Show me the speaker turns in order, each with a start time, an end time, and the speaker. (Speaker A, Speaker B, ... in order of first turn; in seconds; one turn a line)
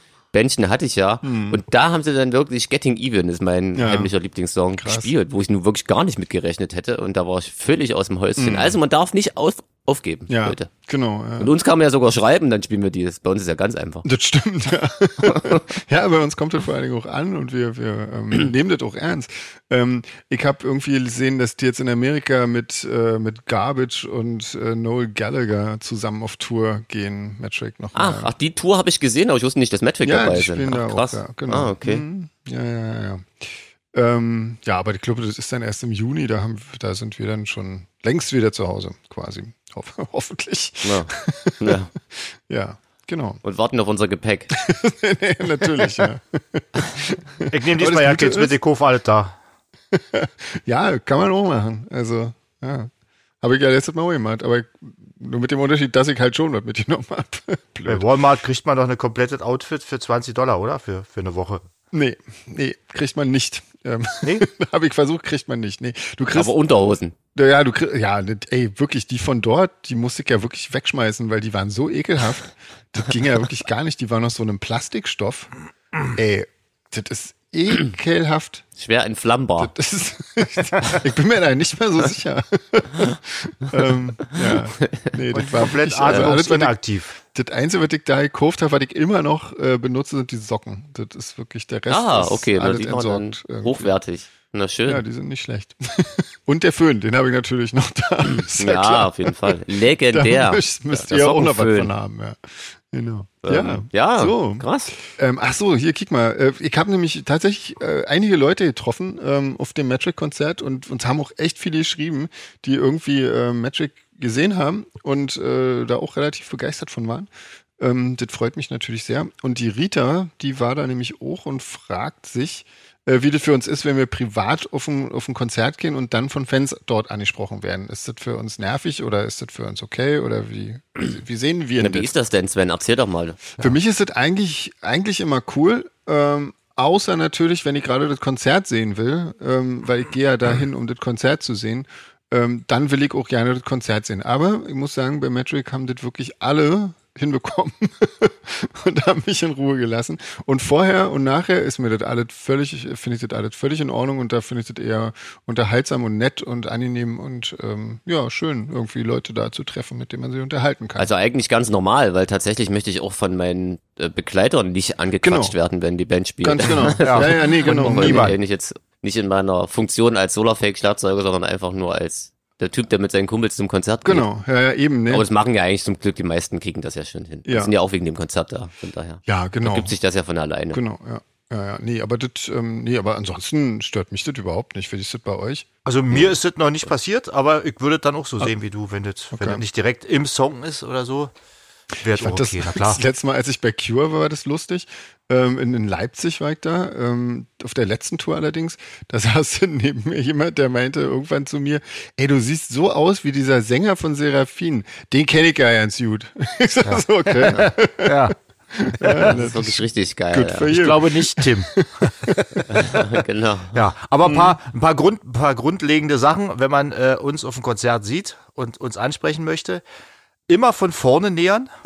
Speaker A: 0.3-10.7
Speaker B: 1.2-1.6
Speaker B: 3.8-4.1
Speaker B: 4.7-5.1
Speaker B: 8.4-8.8
Speaker B: 10.3-11.5
Speaker A: 11.4-14.1
Speaker B: 14.0-28.3
Speaker A: 15.2-15.6
Speaker A: 27.9-32.0
Speaker B: 30.0-43.4
Speaker A: 40.8-41.9
Speaker A: 43.4-44.5
Speaker B: 44.5-48.5
Speaker C: 47.5-49.3
Speaker B: 49.9-52.9
Speaker B: 53.4-58.1
Speaker C: 57.9-61.6
Speaker B: 61.9-66.5
Speaker A: 66.3-67.2
Speaker B: 67.3-75.5
Speaker B: 76.1-78.6
Speaker A: 78.8-79.7
Speaker B: 79.6-93.9
Speaker C: 85.3-87.2
Speaker A: 91.9-95.0
Speaker B: 94.9-99.6
Speaker A: 98.6-101.9
Speaker B: 100.1-132.1
Speaker A: 103.4-104.9
Speaker A: 131.8-133.4
Speaker B: 133.6-161.1
Speaker A: 161.0-174.3
Speaker B: 165.2-165.5
Speaker B: 166.4-168.3
Speaker C: 167.0-168.3
Speaker B: 174.0-175.2
Speaker A: 175.1-180.8
Speaker B: 177.4-177.7
Speaker B: 179.2-179.9
Speaker B: 180.7-185.7
Speaker C: 185.8-191.3
Speaker B: 189.3-189.6
Speaker C: 192.0-193.0
Speaker B: 192.1-212.8
Speaker C: 206.8-208.3
Speaker C: 209.0-209.3
Speaker A: 209.1-210.7
Speaker C: 210.7-212.9
Speaker A: 212.7-213.8
Speaker C: 213.7-219.8
Speaker B: 214.2-214.6
Speaker C: 220.5-221.7